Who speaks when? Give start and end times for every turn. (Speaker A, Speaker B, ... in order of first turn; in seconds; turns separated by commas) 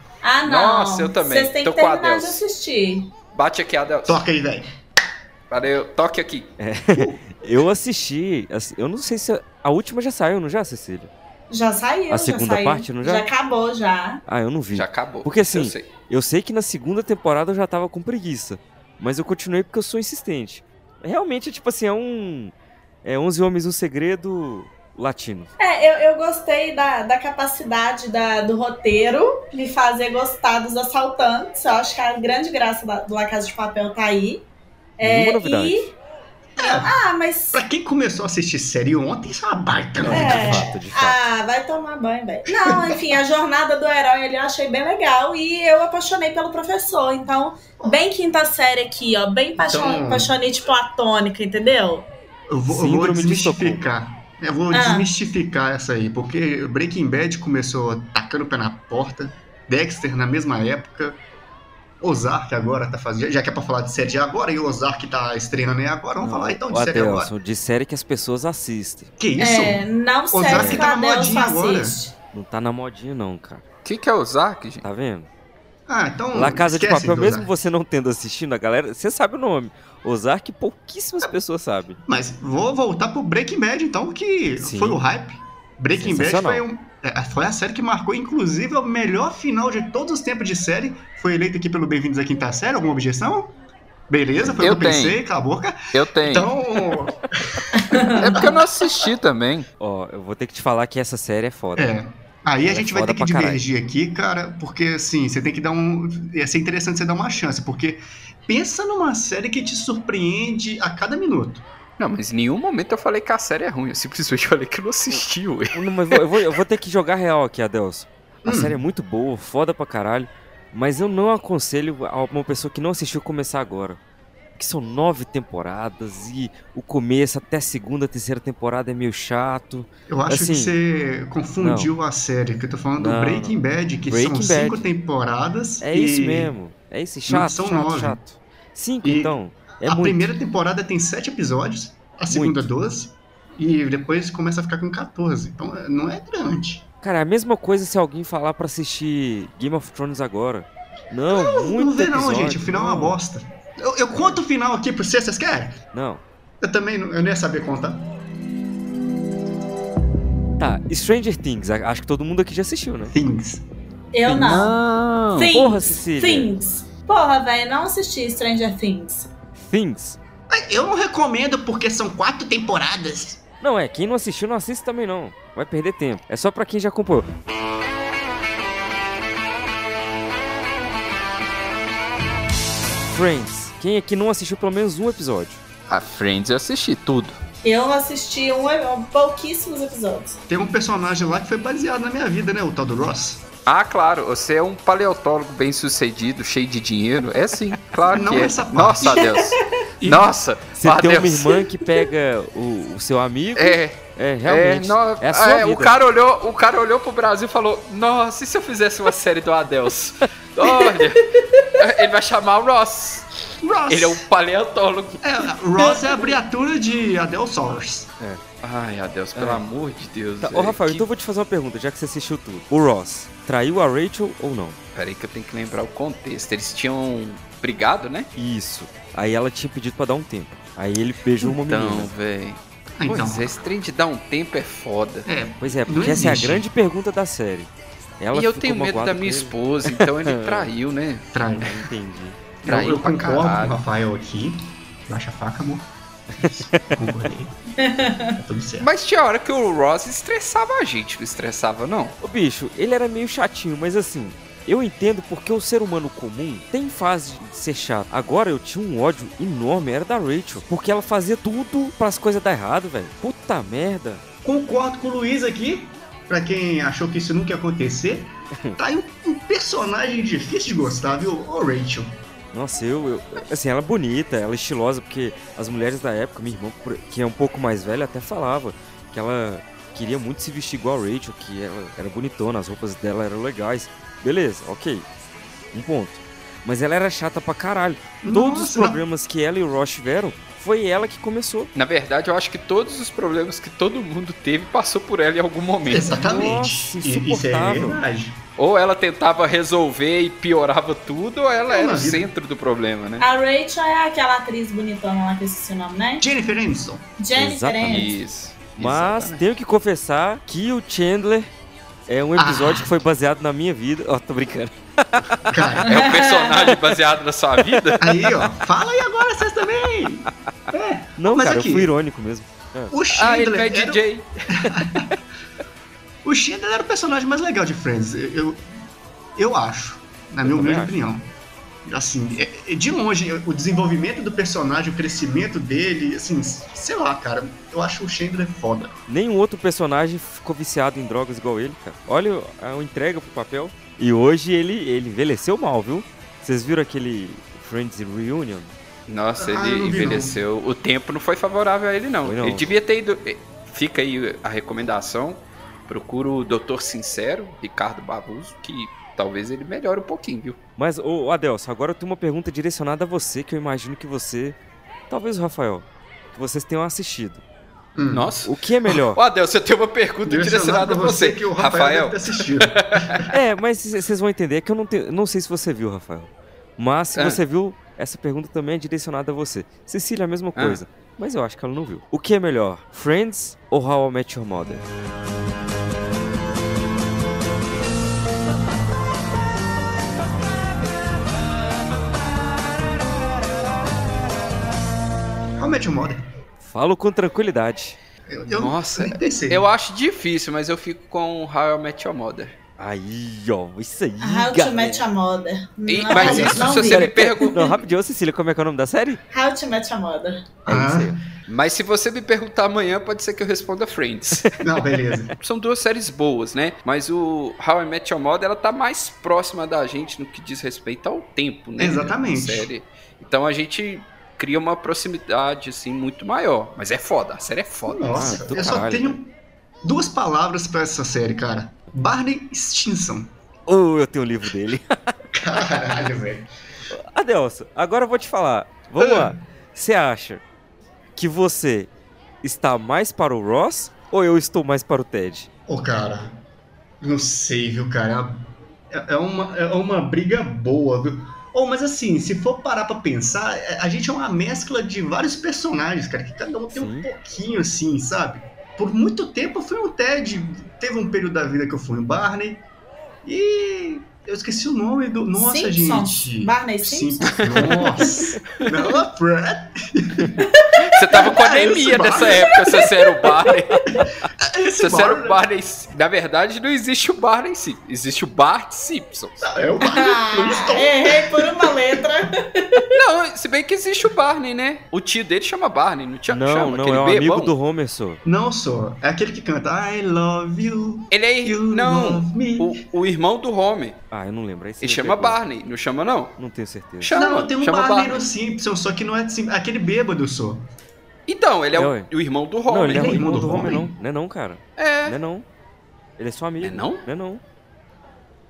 Speaker A: 0.2-3.1, Speaker B: 0.4-2.4, Speaker B: 3.3-4.2, Speaker C: 4.0-4.7, Speaker B: 5.5-6.5, Speaker D: 6.6-11.1, Speaker C: 6.9-7.4, Speaker A: 11.5-14.2, Speaker D: 12.1-13.3, Speaker D: 14.3-25.5, Speaker B: 14.7-15.9, Speaker A: 25.6-34.4, Speaker A: 35.0-35.9, Speaker D: 35.0-35.9, Speaker C: 36.6-36.9, Speaker A: 36.6-37.6, Speaker C: 37.5-40.7, Speaker D: 40.0-41.2, Speaker A: 40.1-52.1, Speaker C: 42.6-42.9, Speaker C: 49.6-50.3, Speaker C: 52.5-61.2, Speaker D: 52.7-53.8, Speaker A: 54.7-55.1, Speaker C: 62.0-67.3, Speaker D: 66.2-69.1, Speaker C: 69.2-72.0, Speaker A: 69.4-72.1, Speaker D: 70.5-70.8, Speaker D: 72.3-73.6, Speaker B: 73.8-74.8, Speaker D: 74.8-75.3, Speaker C: 75.9-77.5, Speaker D: 76.3-82.0, Speaker C: 82.1-93.5, Speaker D: 84.6-85.0, Speaker D: 85.9-86.6, Speaker C: 94.1-98.6, Speaker B: 94.6-95.2, Speaker B: 95.9-96.5, Speaker A: 97.7-98.3, Speaker B: 98.2-99.7, Speaker D: 99.8-101.9, Speaker C: 101.8-111.6, Speaker D: 102.6-103.6, Speaker B: 112.0-116.2, Speaker D: 115.7-124.0, Speaker C: 118.5-118.8, Speaker D: 124.6-130.7, Speaker C: 130.1-136.5, Speaker D: 131.6-131.9, Speaker D: 133.0-134.9, Speaker D: 135.8-140.3, Speaker C: 137.3-138.2, Speaker C: 139.0-146.8, Speaker D: 142.3-142.6, Speaker D: 147.0-153.2, Speaker C: 151.3-155.8, Speaker D: 155.9-156.2, Speaker C: 156.6-158.1, Speaker D: 160.6-163.1, Speaker C: 163.1-163.6, Speaker A: 164.1-164.7, Speaker B: 164.3-165.5, Speaker A: 165.3-169.3, Speaker D: 165.5-166.5, Speaker D: 169.6-170.2, Speaker C: 170.5-173.4, Speaker D: 173.6-177.3, Speaker D: 183.1-185.6, Speaker B: 185.9-187.4, Speaker A: 187.6-190.4, Speaker C: 190.5-193.4, Speaker B: 193.7-201.6, Speaker C: 198.1-199.3, Speaker D: 200.8-205.9, Speaker B: 203.6-211.2, Speaker B: 211.8-213.3, Speaker C: 213.6-214.2, Speaker B: 213.9-215.2, Speaker C: 215.2-218.1, Speaker B: 218.6-221.1, Speaker D: 219.4-219.6, Speaker D: 220.4-224.8, Speaker B: 224.9-228.3, Speaker D: 228.4-232.1, Speaker B: 231.4-235.2, Speaker C: 233.0-233.6, Speaker C: 235.2-236.7, Speaker D: 235.6-240.7, Speaker B: 238.3-241.2, Speaker C: 241.3-241.7, Speaker D: 241.6-242.4, Speaker C: 242.6-245.9, Speaker B: 242.6-243.8, Speaker C: 246.4-247.6, Speaker D: 246.4-247.1, Speaker A: 247.8-248.4, Speaker C: 248.1-248.9, Speaker B: 248.8-252.1, Speaker D: 252.2-264.2, Speaker C: 264.4-272.1, Speaker D: 272.5-285.1, Speaker D: 285.7-291.7, Speaker C: 288.2-289.0, Speaker B: 291.7-296.1, Speaker C: 295.9-298.4, Speaker D: 296.1-298.0, Speaker B: 298.6-303.2, Speaker C: 301.7-302.3, Speaker A: 303.2-306.2, Speaker C: 306.2-307.1, Speaker A: 307.2-308.1, Speaker D: 307.4-308.1, Speaker B: 307.8-309.4, Speaker D: 308.8-311.5, Speaker D: 312.1-315.8, Speaker C: 312.4-313.0, Speaker C: 315.5-315.9, Speaker B: 315.9-318.0, Speaker A: 315.9-316.5, Speaker C: 318.0-321.9, Speaker D: 321.2-322.9, Speaker C: 322.9-325.1, Speaker B: 323.1-324.3, Speaker C: 326.2-328.7, Speaker C: 329.4-331.2, Speaker D: 330.4-330.9, Speaker C: 331.9-339.0, Speaker D: 339.1-348.7, Speaker B: 349.1-360.6, Speaker C: 349.4-350.4, Speaker D: 352.2-352.7, Speaker D: 360.8-364.6, Speaker D: 365.1-367.4, Speaker C: 367.9-368.3, Speaker B: 368.1-373.3, Speaker D: 368.4-369.2, Speaker C: 370.2-373.3, Speaker D: 373.3-384.9, Speaker B: 377.1-377.4, Speaker C: 395.6-396.2, Speaker D: 396.6-398.0, Speaker C: 398.3-399.6, Speaker B: 398.5-402.6, Speaker D: 402.8-405.1, Speaker A: 404.2-407.1, Speaker B: 405.9-407.8, Speaker C: 406.1-406.8, Speaker D: 406.3-409.2, Speaker A: 409.3-410.4, Speaker C: 410.6-411.2, Speaker D: 410.7-411.1, Speaker B: 411.5-414.4, Speaker C: 414.6-415.3, Speaker B: 415.4-428.4, Speaker C: 421.8-422.7, Speaker C: 427.9-429.3, Speaker D: 428.1-429.2, Speaker C: 429.8-433.3, Speaker D: 433.7-435.1, Speaker C: 435.3-436.5, Speaker D: 436.9-440.4, Speaker C: 439.0-439.4, Speaker D: 441.1-441.9, Speaker D: 442.4-445.5, Speaker C: 445.7-446.4, Speaker C: 447.0-462.6, Speaker D: 456.7-457.1, Speaker C: 463.2-470.4, Speaker A: 465.4-467.7, Speaker B: 467.4-467.8, Speaker B: 470.9-473.8, Speaker C: 471.1-472.6, Speaker C: 474.4-475.4, Speaker B: 474.8-479.4, Speaker C: 479.4-482.0, Speaker A: 479.8-482.9, Speaker B: 482.9-487.5, Speaker D: 486.3-488.2, Speaker C: 488.2-492.7, Speaker B: 491.1-494.0, Speaker D: 494.1-495.4, Speaker B: 494.8-496.4, Speaker D: 496.4-497.1, Speaker B: 497.0-498.2, Speaker C: 497.1-500.7, Speaker B: 501.3-503.2, Speaker D: 501.7-502.1, Speaker D: 502.7-505.4, Speaker C: 502.9-503.9, Speaker B: 504.8-505.2, Speaker D: 506.2-507.4, Speaker B: 506.6-507.0